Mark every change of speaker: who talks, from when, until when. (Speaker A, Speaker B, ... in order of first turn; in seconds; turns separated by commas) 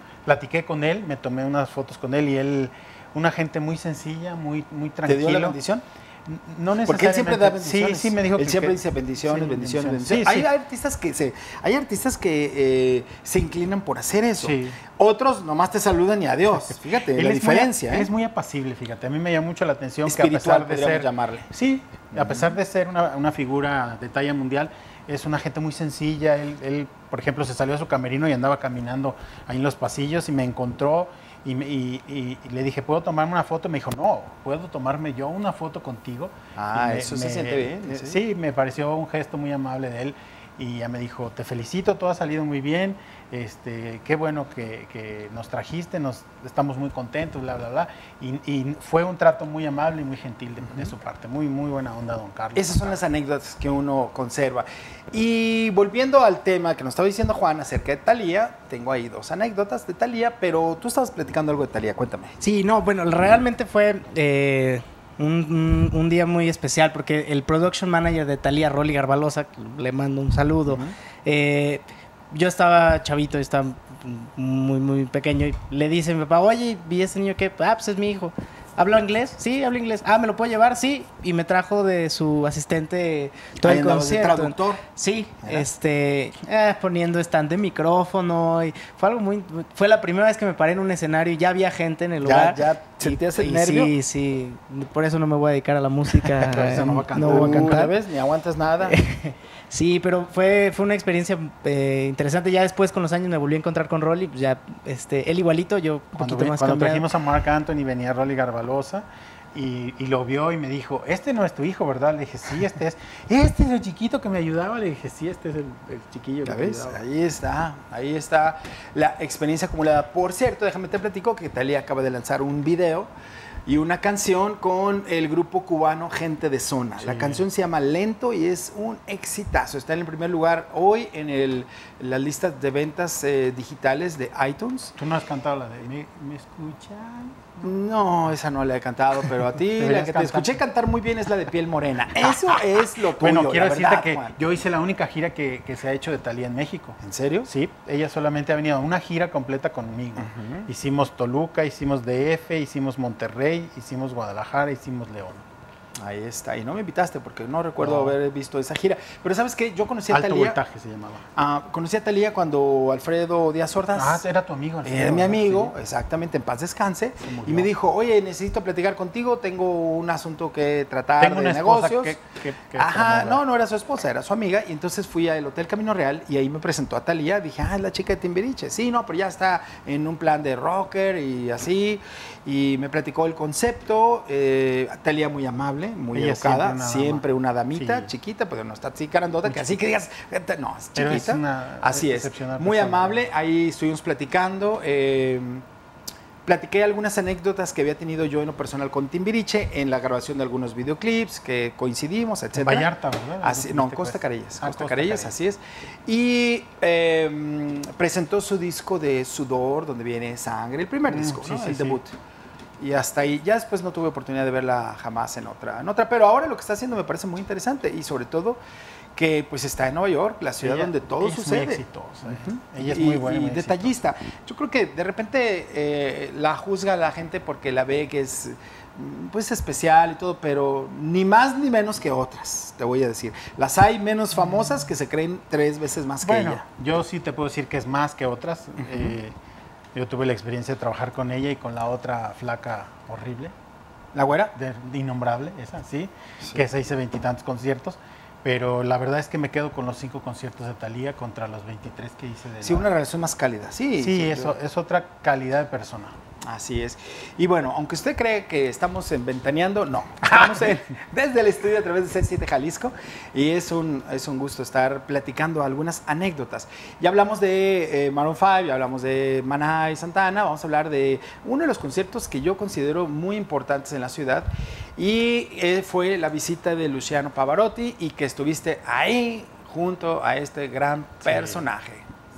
Speaker A: 0.2-5.5, Speaker B: 5.0-5.8, Speaker A: 6.2-10.5, Speaker B: 6.8-18.1, Speaker A: 14.4-14.8, Speaker A: 16.5-53.0, Speaker B: 20.1-21.5, Speaker B: 22.1-22.4, Speaker B: 36.5-38.2, Speaker B: 52.5-62.3, Speaker C: 62.4-97.9, Speaker B: 70.7-70.9, Speaker B: 83.6-84.8, Speaker B: 92.2-93.9, Speaker A: 96.3-97.8, Speaker B: 97.2-99.0, Speaker C: 98.9-107.1, Speaker A: 106.2-117.0, Speaker B: 116.4-123.1, Speaker B: 123.7-134.9, Speaker A: 127.0-127.4, Speaker A: 134.9-137.7, Speaker B: 137.6-144.3, Speaker A: 139.7-140.6, Speaker A: 142.2-142.5, Speaker A: 143.2-155.4, Speaker B: 147.0-147.5, Speaker B: 150.2-150.7, Speaker B: 156.0-160.6, Speaker A: 157.8-158.2, Speaker A: 160.1-161.2, Speaker B: 161.3-164.2, Speaker A: 163.9-165.7, Speaker B: 164.8-172.2, Speaker A: 167.2-167.7, Speaker A: 171.2-173.4, Speaker B: 172.8-195.6, Speaker A: 186.1-188.1, Speaker A: 189.4-189.8, Speaker A: 190.9-193.3, Speaker B: 196.4-202.9, Speaker A: 202.5-205.3, Speaker B: 203.4-212.1, Speaker A: 211.1-212.0, Speaker B: 212.8-218.6, Speaker B: 219.1-236.6, Speaker A: 220.6-223.9, Speaker A: 236.2-239.3, Speaker B: 238.8-239.2, Speaker A: 239.9-243.5, Speaker B: 244.1-244.5, Speaker A: 244.5-252.9, Speaker B: 252.6-254.6, Speaker A: 254.0-256.2, Speaker B: 256.4-282.1, Speaker A: 260.2-260.8, Speaker A: 281.2-281.6